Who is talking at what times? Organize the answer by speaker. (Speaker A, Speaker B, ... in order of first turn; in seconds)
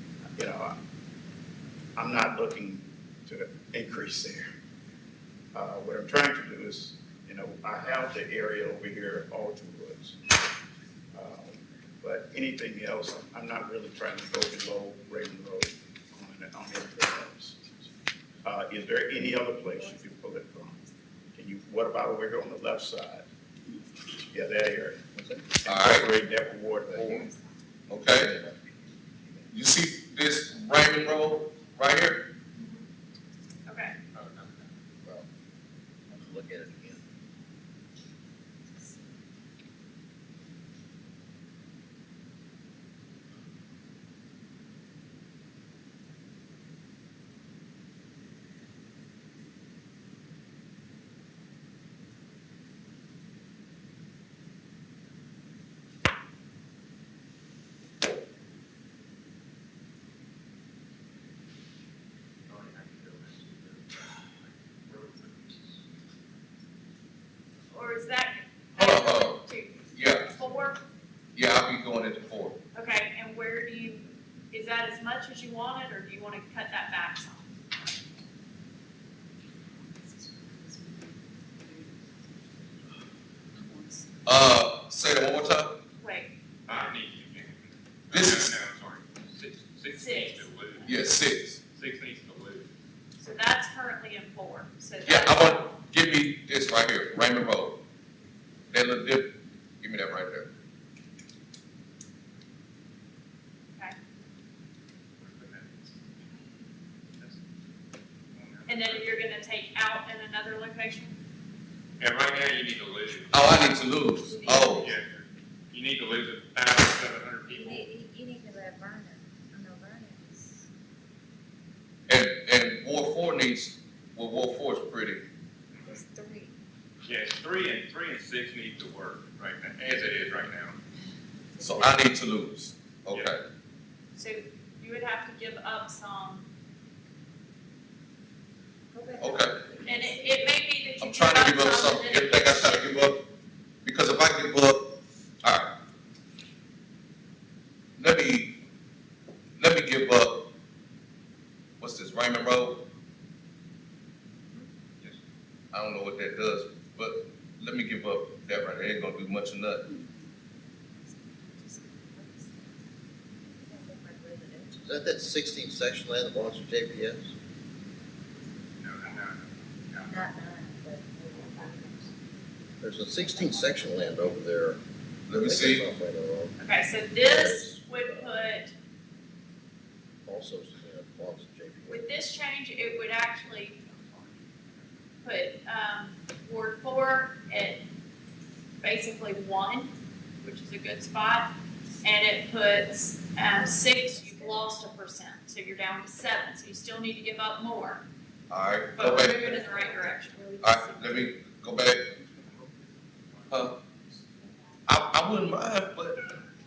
Speaker A: 0.4-0.8, 2.0-4.5, 5.5-10.2, 11.1-17.9, 18.4-20.8, 21.3-23.3, 24.3-27.3, 28.2-28.5
Speaker B: 25.7-26.1, 27.9-28.4, 29.5-32.3, 68.8-69.4, 69.9-70.3, 71.3-72.6, 84.2-85.8, 88.1-88.6, 90.8-91.6, 95.0-97.8, 98.7-100.5, 113.3-114.9, 122.1-125.2, 131.6-133.4, 139.2-139.6, 141.0-143.2, 143.8-144.9, 145.4-145.8, 148.0-148.6, 149.6-150.5, 151.8-152.9, 155.7-159.9, 175.3-175.8, 198.5-199.7, 200.6-202.2, 203.5-203.8, 204.9-206.3
Speaker C: 32.6-32.9, 33.7-34.0, 67.7-70.8, 72.8-77.5, 86.0-86.3, 89.9-90.9, 93.2-95.7, 108.7-111.2, 114.3-114.7, 134.2-136.5, 139.8-142.9, 176.6-178.7, 181.9-183.8, 185.2-187.8, 188.8-198.1, 198.9-201.3
Speaker D: 34.1-34.5, 62.5-65.8, 86.7-91.0, 91.7-92.7, 105.2-106.4, 108.3-109.3, 112.0-113.6, 114.7-117.9, 127.0-130.8, 168.8-170.2, 202.3-202.7, 203.3-203.7
Speaker E: 36.1-37.0, 164.8-167.3, 172.8-174.8, 175.4-176.6, 177.2-178.4, 180.3-182.1
Speaker F: 114.3-114.9, 117.5-120.7, 125.8-126.5, 131.6-132.0, 138.9-140.4, 161.5-162.7, 163.4-164.9, 170.1-172.1, 173.2-174.4, 193.5-194.6